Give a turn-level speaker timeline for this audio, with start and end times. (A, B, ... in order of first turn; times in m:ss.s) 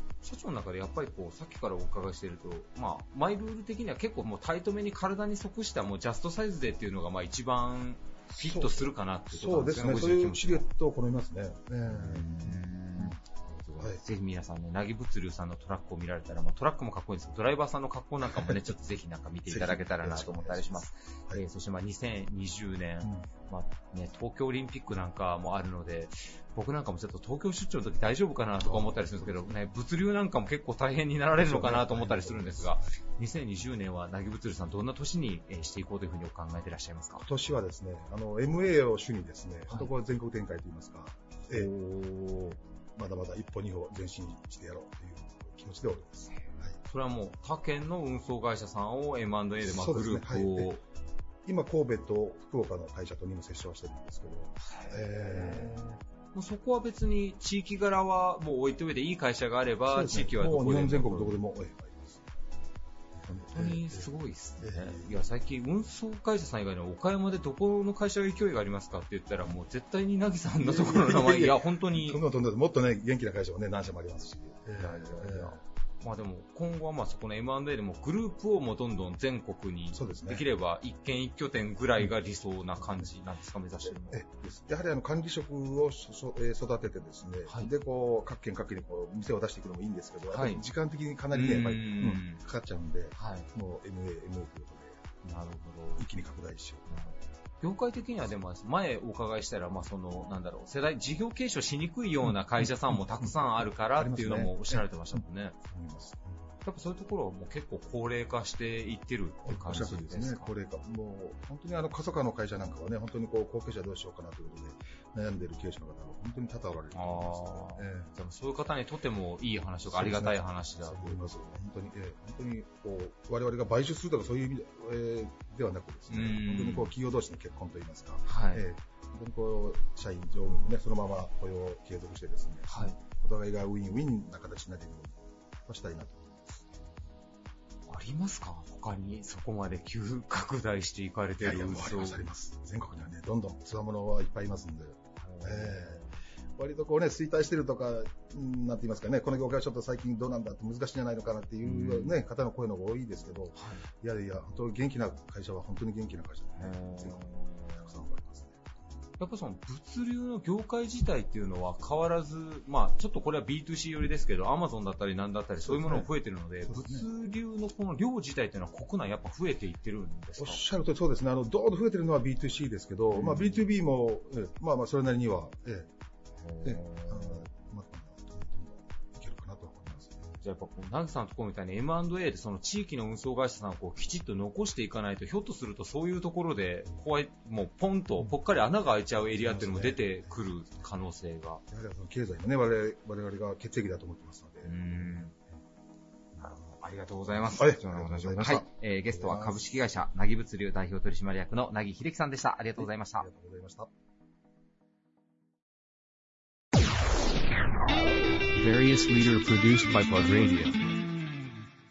0:00.2-0:10.7 A
0:08.3-0:13.2 B
0:11.9-0:37.2 A
0:18.3-0:18.6 B
0:19.4-0:21.4 B
0:23.0-0:23.3 B
0:28.6-0:29.5 B
0:31.4-0:32.8 B
0:37.2-0:46.8 B
0:41.5-0:42.5 A
0:46.3-0:50.8 A
0:49.6-0:50.8 B
0:51.4-0:56.0 B
0:54.6-0:55.8 A
0:56.3-1:01.4 A
0:59.9-1:02.3 B
1:03.2-1:05.1 B
1:03.5-1:12.2 A
1:10.6-1:15.6 B
1:14.8-1:24.2 A
1:19.9-1:20.4 B
1:23.8-1:35.1 B
1:27.4-1:27.7 A
1:30.3-1:30.6 A
1:31.3-1:32.4 A
1:33.1-1:33.5 A
1:35.2-1:36.1 A
1:35.9-1:36.9 B
1:36.9-1:45.6 A
1:42.6-1:46.5 B
1:46.6-1:50.5 A
1:49.4-1:58.1 B
1:56.9-2:01.2 A
1:59.9-2:16.6 B
2:06.1-2:06.9 A
2:08.2-2:08.6 A
2:12.7-2:13.0 A
2:17.9-2:22.3 A
2:21.4-2:38.7 B
2:25.2-2:26.0 A
2:31.6-2:32.2 A
2:33.5-2:33.8 A
2:36.6-2:37.8 A
2:39.2-2:50.6 A
2:45.6-2:46.1 B
2:46.7-2:47.1 B
2:50.4-2:55.9 B
2:53.1-2:53.6 A
2:56.4-2:57.5 A
2:56.6-3:00.4 B
3:00.4-3:11.6 A
3:09.1-3:10.8 B
3:11.7-3:15.5 B
3:14.6-3:15.3 A
3:16.4-3:23.2 A
3:17.3-3:19.7 B
3:22.8-3:23.9 B
3:28.5-3:30.8 C